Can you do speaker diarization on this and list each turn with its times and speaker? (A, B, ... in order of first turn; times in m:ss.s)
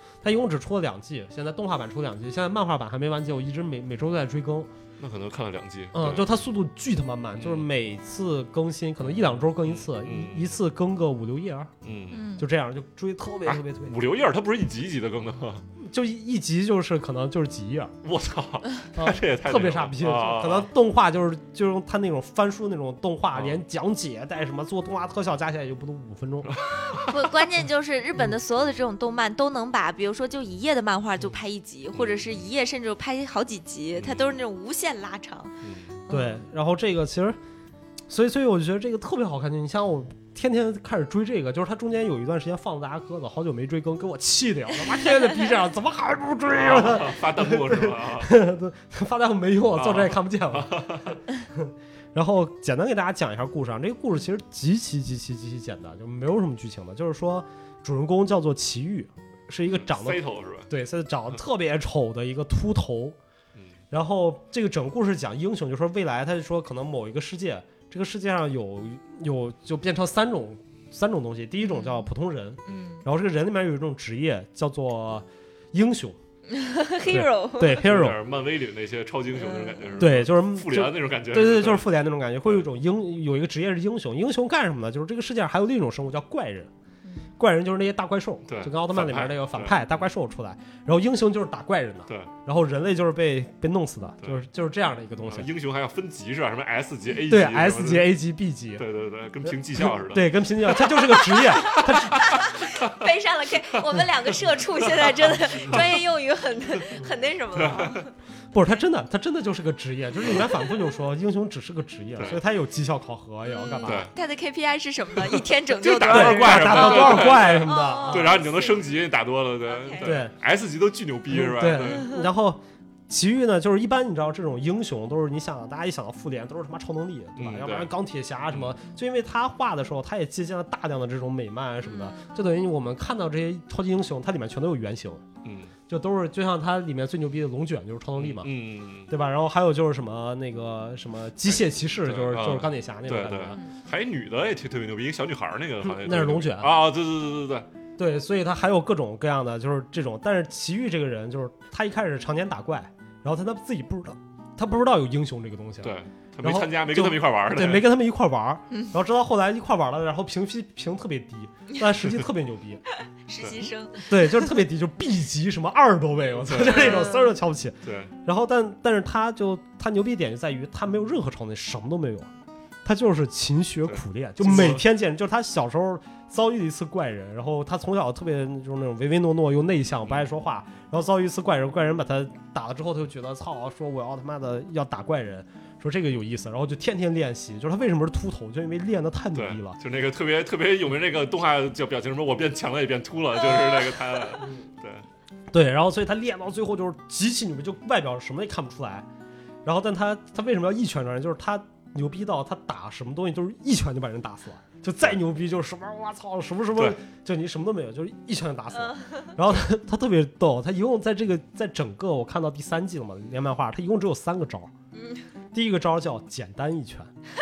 0:00.2-0:04.7 A
0:05.0-0:06.4 B
0:05.9-0:11.7 A
0:07.4-0:07.7 B
0:09.1-0:10.6 B
0:11.8-0:12.3 B
0:12.1-0:12.5 C
0:12.4-0:14.0 A
0:13.5-0:15.7 B
0:15.8-0:18.0 A
0:18.0-0:20.7 B
0:18.9-0:26.6 A
0:23.3-0:23.6 B
0:26.4-0:27.3 B
0:27.1-0:36.4 C
0:31.9-0:32.4 B
0:34.0-0:34.4 B
0:35.6-0:36.0 B
0:36.1-0:37.4 A
0:38.1-1:03.2 A
0:46.5-0:48.3 B
0:49.8-0:51.2 B
0:59.7-1:00.7 B
1:03.9-1:16.2 A
1:11.6-1:12.1 C
1:12.7-1:13.0 C
1:16.5-1:17.8 C
1:17.1-1:18.2 A
1:17.7-1:21.9 B
1:19.4-1:20.0 C
1:20.0-1:26.7 A
1:27.4-1:35.5 A
1:28.5-1:30.0 B
1:35.3-1:38.2 B
1:37.3-1:38.8 A
1:38.8-1:40.4 B
1:39.5-1:42.5 A
1:41.4-1:48.1 C
1:42.4-1:43.0 B
1:44.8-1:46.0 B
1:47.6-1:48.0 B
1:48.5-1:54.1 A
1:50.2-1:50.5 B
1:52.2-1:52.4 B
1:53.5-1:59.0 C
1:53.8-1:54.1 B
1:55.2-2:02.1 B
1:56.1-1:58.4 A
1:59.7-2:00.2 C
2:00.0-2:00.3 A
2:01.3-2:15.2 A
2:01.8-2:02.2 C
2:07.4-2:07.9 B
2:11.8-2:12.4 C
2:15.4-2:15.7 B
2:15.9-2:18.5 A
2:18.2-2:19.1 B
2:19.1-2:23.6 A
2:22.0-2:27.7 B
2:25.8-2:26.8 A
2:28.0-2:42.8 A
2:35.8-2:37.9 B
2:43.3-2:44.5 C
2:43.4-2:43.7 B
2:44.1-2:52.3 A
2:46.4-2:47.1 B
2:46.6-2:47.3 C
2:47.8-2:48.1 B
2:52.8-3:09.8 A
2:53.9-2:54.8 B
3:09.3-3:15.1 B
3:14.4-3:14.6 A
3:15.5-3:19.1 A
3:19.6-3:34.7 A
3:28.7-3:29.3 C
3:35.0-3:35.2 C
3:35.5-3:37.1 A